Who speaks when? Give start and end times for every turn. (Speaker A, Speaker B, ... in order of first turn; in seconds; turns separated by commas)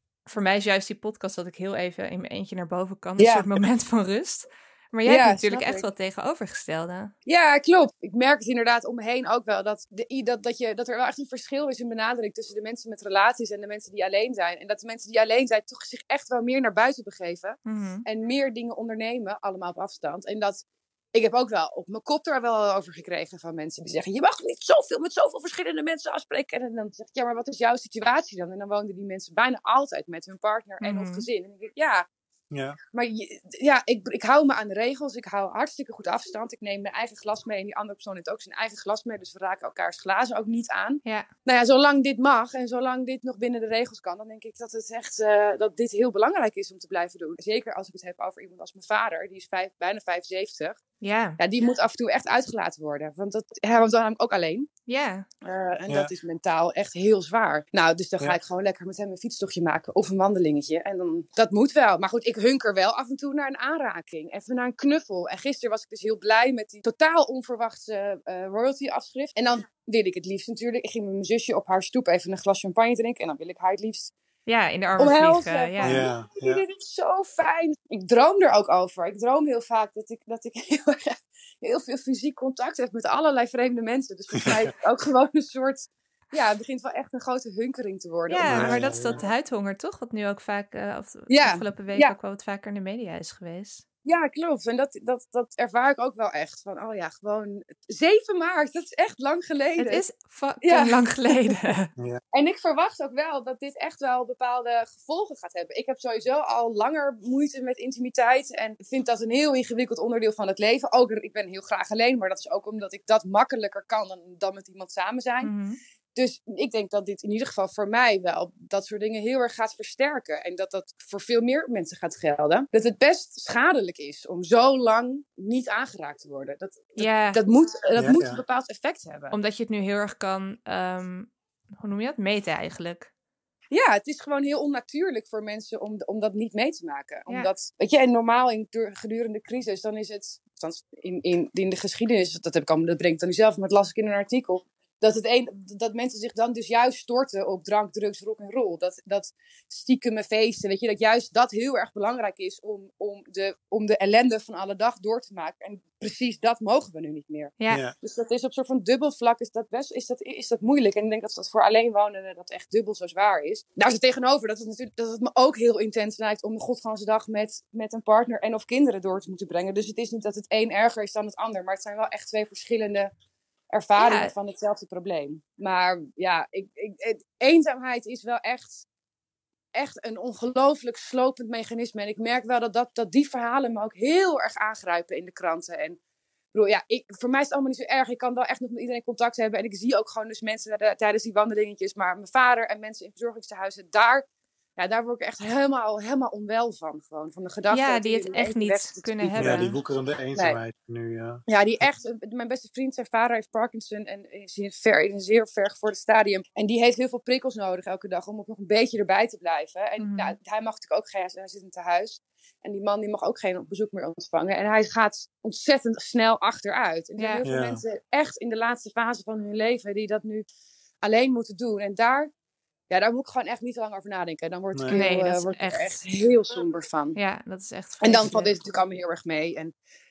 Speaker A: 0.3-7.1, Speaker B: 3.2-3.5, Speaker B: 5.0-5.9, Speaker B: 7.2-32.1, Speaker A: 17.6-18.0, Speaker A: 30.8-31.2, Speaker C: 32.5-32.8, Speaker B: 32.9-50.8, Speaker A: 51.0-51.4, Speaker B: 51.4-54.7, Speaker A: 54.9-55.3, Speaker B: 55.4-74.1, Speaker A: 74.5-76.0, Speaker B: 75.0-89.0, Speaker C: 75.8-76.6, Speaker A: 88.3-93.8, Speaker C: 88.5-89.2, Speaker B: 91.3-92.2, Speaker B: 94.0-100.0, Speaker A: 99.8-101.9, Speaker B: 100.6-101.3, Speaker B: 102.3-115.5, Speaker A: 115.4-115.8, Speaker B: 116.1-129.3, Speaker A: 127.0-127.4, Speaker C: 128.0-128.4, Speaker A: 129.3-133.1, Speaker B: 133.7-173.1, Speaker C: 157.7-157.9, Speaker B: 173.7-178.8, Speaker A: 174.0-174.3, Speaker B: 179.7-186.0, Speaker B: 186.5-194.2, Speaker B: 194.8-199.6, Speaker A: 197.7-199.8, Speaker C: 199.3-201.4, Speaker B: 200.3-200.6, Speaker B: 201.4-220.4, Speaker A: 210.0-210.3, Speaker A: 217.2-217.4, Speaker C: 217.4-217.8, Speaker B: 221.0-222.3, Speaker B: 222.9-227.2, Speaker C: 224.7-225.0, Speaker A: 224.9-226.0, Speaker A: 227.1-228.6, Speaker B: 228.0-229.7